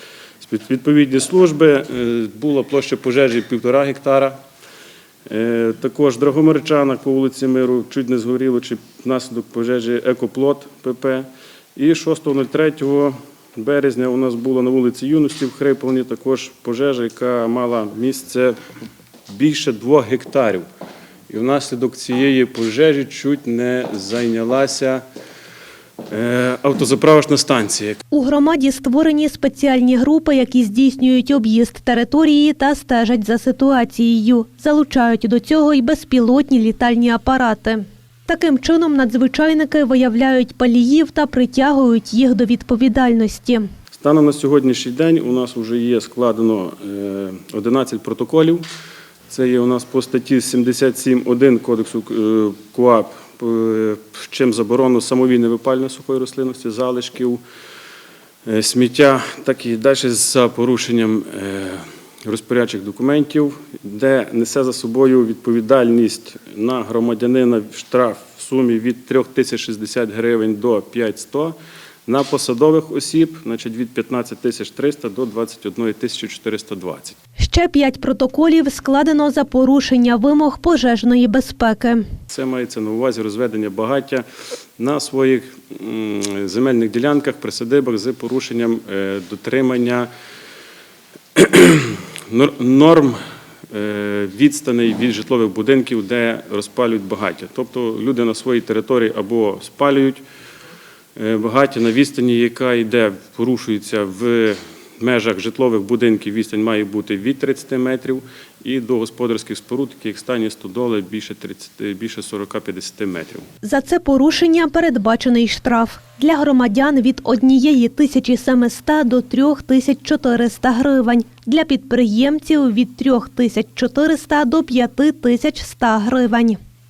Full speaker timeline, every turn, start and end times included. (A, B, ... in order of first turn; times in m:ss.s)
0:00.4-0:04.4 A
0:05.3-0:18.6 A
0:19.3-0:20.6 A
0:21.3-0:25.0 A
0:26.1-0:28.0 A
0:28.1-0:43.7 B
0:43.9-0:48.6 A
0:49.3-0:57.4 A
0:58.5-1:17.2 A
1:17.4-1:22.0 B
1:22.3-1:24.3 A
1:24.8-1:30.1 A
1:31.4-1:33.2 A
1:33.7-1:40.2 A
1:41.2-1:53.5 A
1:53.6-2:06.6 B